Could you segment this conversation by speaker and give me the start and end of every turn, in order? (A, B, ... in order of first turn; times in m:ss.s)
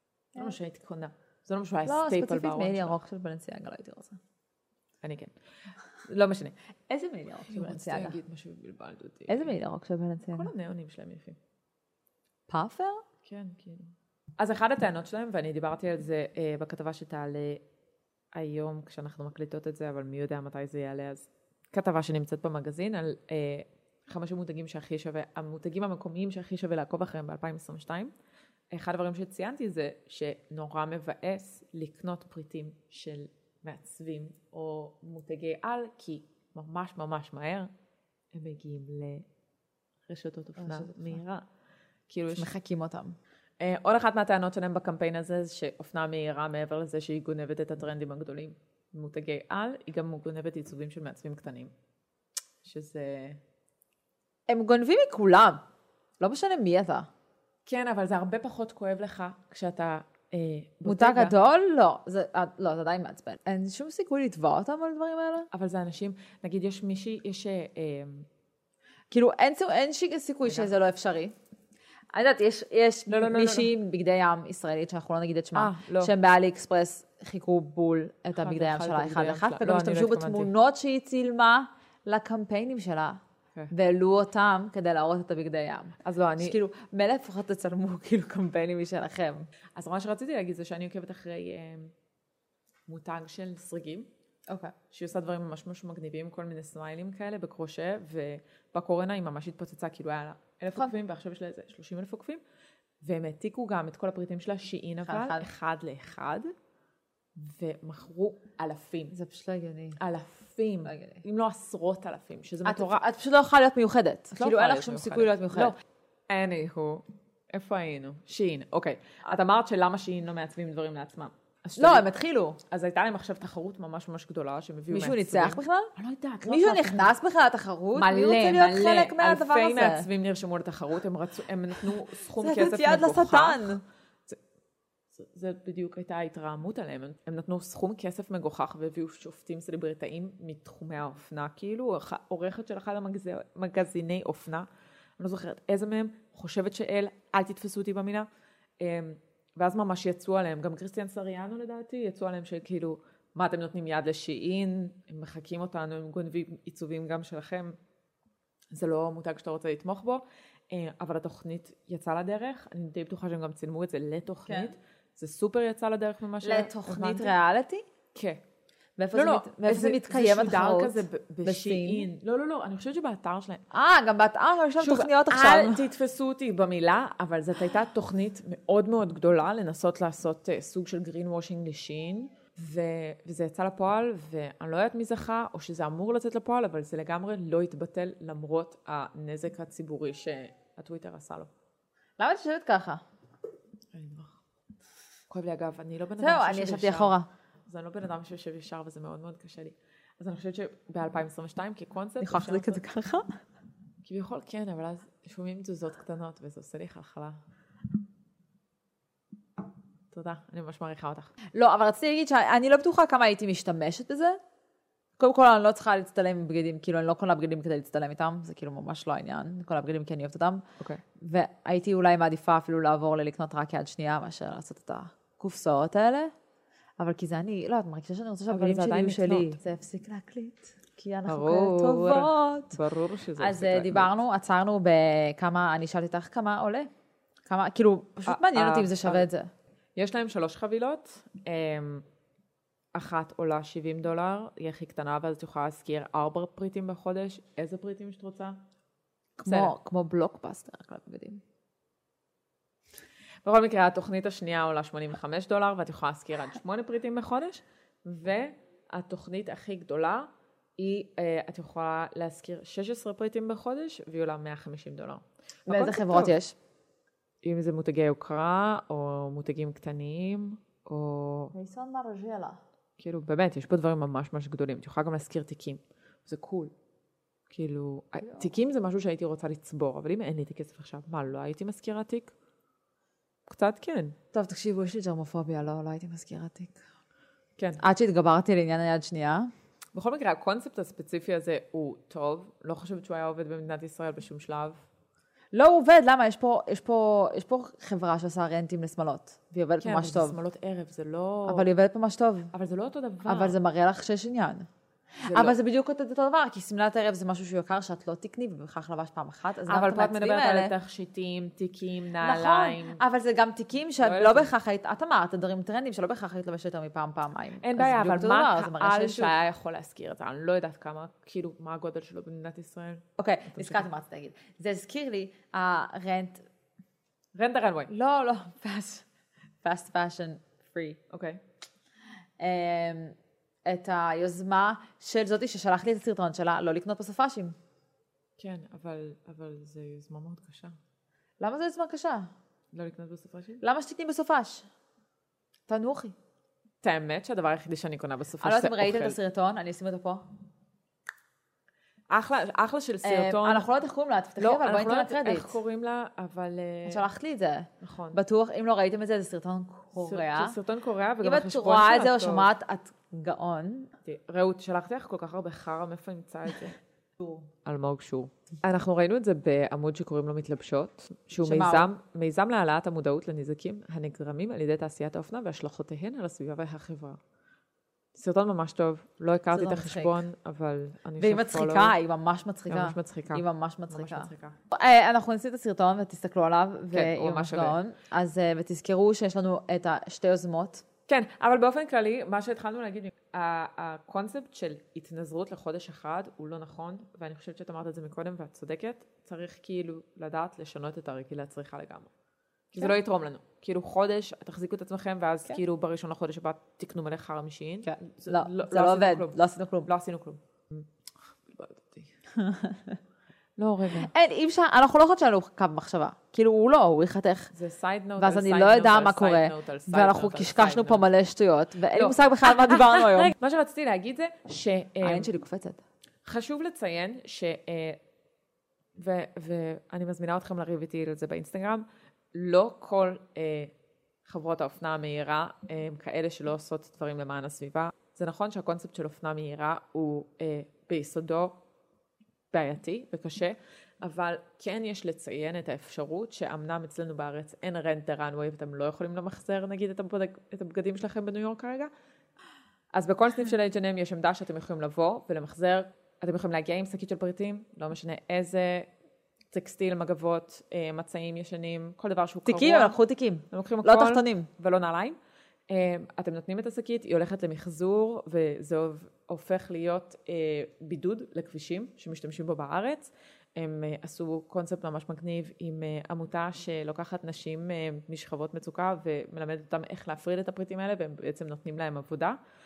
0:00.3-0:03.0 A
0:01.8-0:04.2 B
0:05.0-0:05.3 A
0:06.0-0:06.5 A
0:06.9-0:08.2 B
0:07.5-0:09.5 A
0:09.3-0:10.5 B
0:10.3-0:11.4 A
0:12.5-0:13.0 B
0:13.2-0:17.6 A
0:18.3-0:28.1 A
0:28.7-0:37.7 A
0:38.3-0:39.3 A
0:40.1-0:41.4 A
0:40.6-0:41.2 B
0:42.1-0:42.5 A
0:42.3-0:43.2 B
0:43.6-0:51.7 A
0:52.6-0:53.4 A
0:54.5-0:55.6 B
0:56.2-0:57.1 B
0:57.6-1:01.3 A
1:00.8-1:05.5 B
1:05.5-1:08.3 A
1:09.1-1:11.3 B
1:10.4-1:10.7 A
1:12.1-1:23.2 B
1:13.1-1:13.7 A
1:15.5-1:16.1 A
1:18.3-1:20.5 A
1:23.7-1:29.5 B
1:26.0-1:26.6 A
1:29.8-1:31.9 A
1:32.9-1:34.1 A
1:34.5-1:34.7 B
1:34.9-1:42.4 A
1:43.0-1:46.5 A
1:45.0-1:45.5 B
1:47.4-1:49.1 A
1:49.1-1:50.0 B
1:50.0-1:53.0 A
1:50.8-1:51.2 B
1:52.6-1:55.7 B
1:54.3-1:55.8 A
1:56.3-2:02.1 A
2:01.8-2:02.6 B
2:02.7-2:07.1 A
2:04.9-2:05.9 B
2:06.4-2:10.1 B
2:07.9-2:14.4 A
2:12.4-2:13.8 B
2:15.1-2:28.3 A
2:28.8-2:37.8 A
2:38.7-2:47.3 A
2:44.5-2:44.7 B
2:46.4-2:47.8 B
2:48.1-2:48.4 A
2:49.0-2:52.1 B
2:49.1-2:53.6 A
2:53.7-2:55.8 B
2:54.8-3:11.5 A
3:12.2-3:13.0 B
3:13.9-3:14.4 A
3:15.3-3:17.1 A
3:16.2-3:17.3 B
3:17.7-3:22.8 A
3:22.2-3:23.4 B
3:24.0-3:27.4 A
3:30.1-3:31.3 A
3:31.5-3:34.4 B
3:35.2-3:40.6 B
3:41.2-3:46.3 B
3:47.0-3:52.8 B
3:48.5-3:49.6 A
3:51.3-3:54.1 A
3:53.4-3:56.9 B
3:57.5-3:59.5 B
3:58.2-3:59.3 A
4:00.0-4:02.0 A
4:02.9-4:08.6 A
4:09.4-4:11.4 B
4:09.4-4:09.7 A
4:13.4-4:26.4 A
4:25.7-4:26.6 B
4:27.4-4:31.5 A
4:31.5-4:32.6 B
4:33.0-4:36.7 A
4:37.5-4:42.3 A
4:43.5-4:44.2 A
4:44.3-4:46.8 B
4:47.8-4:49.5 B
4:49.9-4:54.8 A
4:55.5-5:00.4 B
4:59.8-5:01.7 A
5:01.5-5:02.5 B
5:02.5-5:03.6 A
5:03.2-5:10.7 B
5:05.2-5:05.6 A
5:09.6-5:13.0 A
5:12.2-5:19.3 B
5:14.0-5:14.5 A
5:17.6-5:23.0 A
5:23.2-5:26.4 B
5:23.5-5:23.8 A
5:27.3-5:27.9 A
5:27.9-5:29.0 B
5:29.6-5:31.0 B
5:31.1-5:31.4 A
5:32.4-5:37.6 B
5:38.4-5:40.8 A
5:41.4-5:42.3 B
5:42.7-5:43.6 A
5:43.6-5:44.7 B
5:45.7-5:46.1 B
5:46.8-5:49.2 A
5:48.4-5:50.2 B
5:52.1-5:53.7 A
5:53.0-5:55.6 B
5:54.4-5:57.0 A
5:56.8-6:00.6 B
5:57.8-5:58.2 A
6:00.0-6:02.5 A
6:01.2-6:03.9 B
6:04.0-6:06.8 A
6:07.2-6:07.5 B
6:07.6-6:17.2 A
6:11.4-6:11.9 B
6:18.1-6:22.0 A
6:19.5-6:20.2 B
6:21.2-6:30.8 B
6:22.7-6:24.6 A
6:26.9-6:27.8 A
6:31.1-6:42.1 A
6:42.7-6:50.9 A
6:47.8-6:49.9 B
6:51.4-6:52.1 A
6:52.4-6:53.0 B
6:53.6-6:54.1 A
6:53.9-6:57.5 B
6:57.5-7:01.1 A
6:58.2-7:03.3 B
7:01.9-7:05.3 A
7:05.0-7:05.8 B
7:06.2-7:08.0 A
7:09.0-7:13.7 A
7:14.2-7:21.6 A
7:22.5-7:31.9 A
7:32.9-7:38.9 A
7:39.5-7:43.0 A
7:42.4-7:44.5 B
7:43.5-7:45.2 A
7:45.7-8:02.4 A